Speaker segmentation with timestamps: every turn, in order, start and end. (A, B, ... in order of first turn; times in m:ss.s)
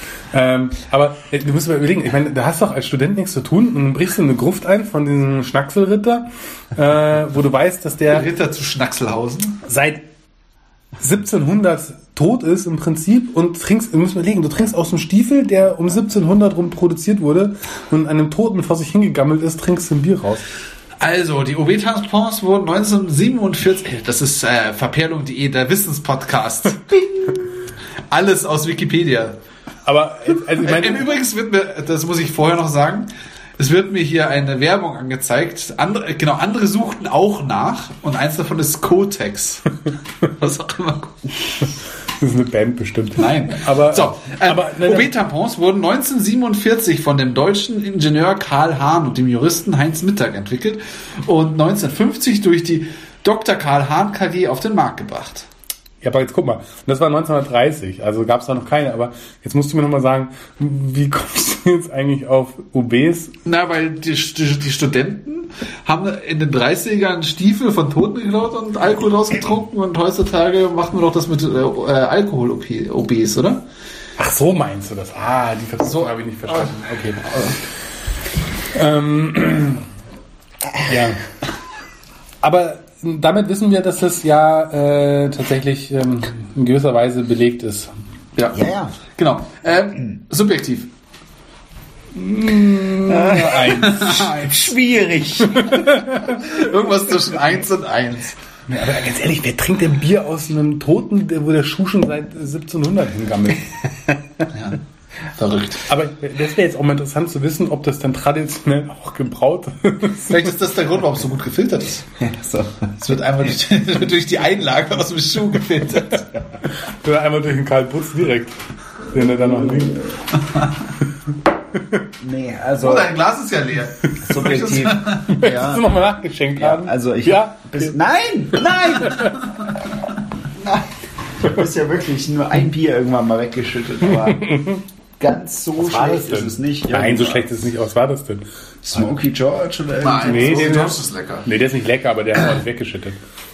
0:00.3-0:08.3 A
0:08.1-0:09.6 B
0:09.6-0:10.0 A
0:11.0-0:20.4 A
0:21.0-0:27.3 B
0:28.1-0:29.3 B
0:29.8-0:31.1 A
0:30.6-0:41.2 B
0:42.2-0:45.1 A
0:43.2-0:55.4 B
0:56.0-1:03.3 A
1:03.4-1:13.6 B
1:14.2-1:17.4 A
1:15.8-1:16.1 B
1:18.7-1:19.8 A
1:20.8-1:21.2 A
1:22.4-1:27.9 A
1:28.4-1:30.9 B
1:28.5-1:29.0 C
1:32.1-1:34.3 A
1:33.0-1:36.0 C
1:33.6-1:34.6 B
1:35.5-1:36.4 A
1:36.1-1:38.4 B
1:38.7-1:43.9 A
1:44.5-1:44.8 B
1:45.4-1:45.8 B
1:45.9-1:50.5 A
1:50.3-1:52.0 B
1:52.2-1:52.9 C
1:53.0-1:56.3 B
1:56.7-1:58.6 A
1:59.1-2:00.1 A
2:01.8-2:02.0 A
2:02.2-2:03.1 C
2:02.8-2:05.3 B
2:04.2-2:05.9 C
2:05.3-2:07.9 A
2:06.6-2:09.3 C
2:08.5-2:09.3 A
2:10.5-2:17.5 C
2:14.2-2:14.8 A
2:15.8-2:18.4 A
2:18.8-2:20.8 C
2:20.0-2:21.4 B
2:20.2-2:23.2 A